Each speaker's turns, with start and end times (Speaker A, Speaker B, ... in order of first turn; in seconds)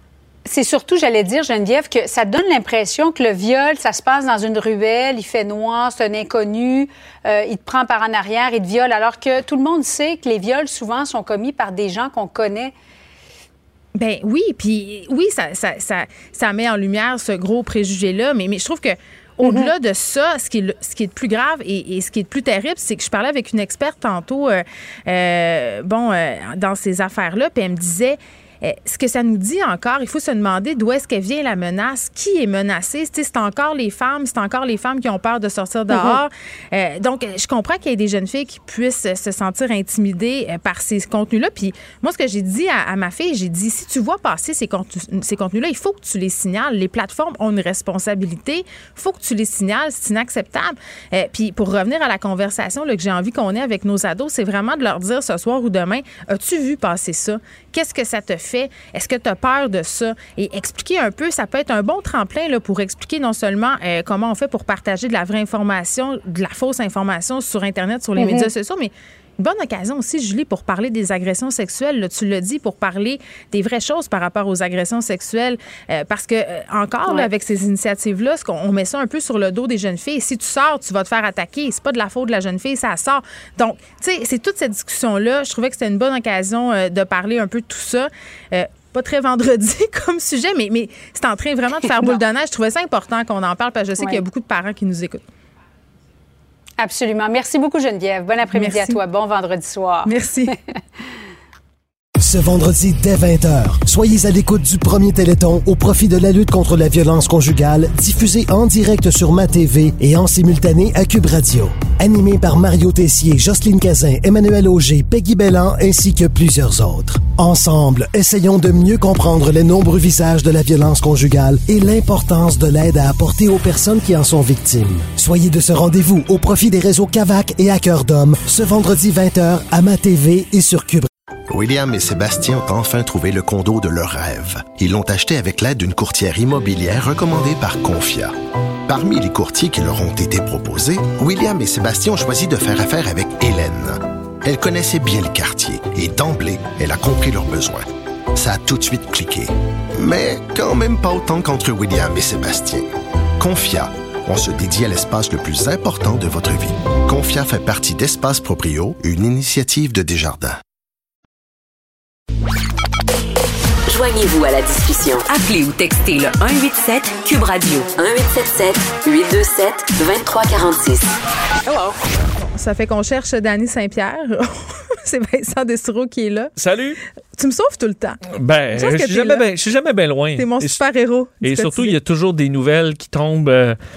Speaker A: 0.5-12.7, 19.4-19.7, 35.9-36.2, 68.2-68.5, 94.0-94.2, 96.8-100.5
Speaker B: 13.9-95.2, 98.5-99.0, 100.0-100.5, 172.4-176.5, 177.4-178.2, 178.8-179.4, 180.4-182.0
Speaker C: 102.2-131.1
Speaker D: 131.5-138.3, 138.9-152.9, 153.4-160.6
Speaker E: 163.9-171.2, 171.7-172.0
Speaker F: 176.6-177.0, 178.3-180.8, 181.4-183.8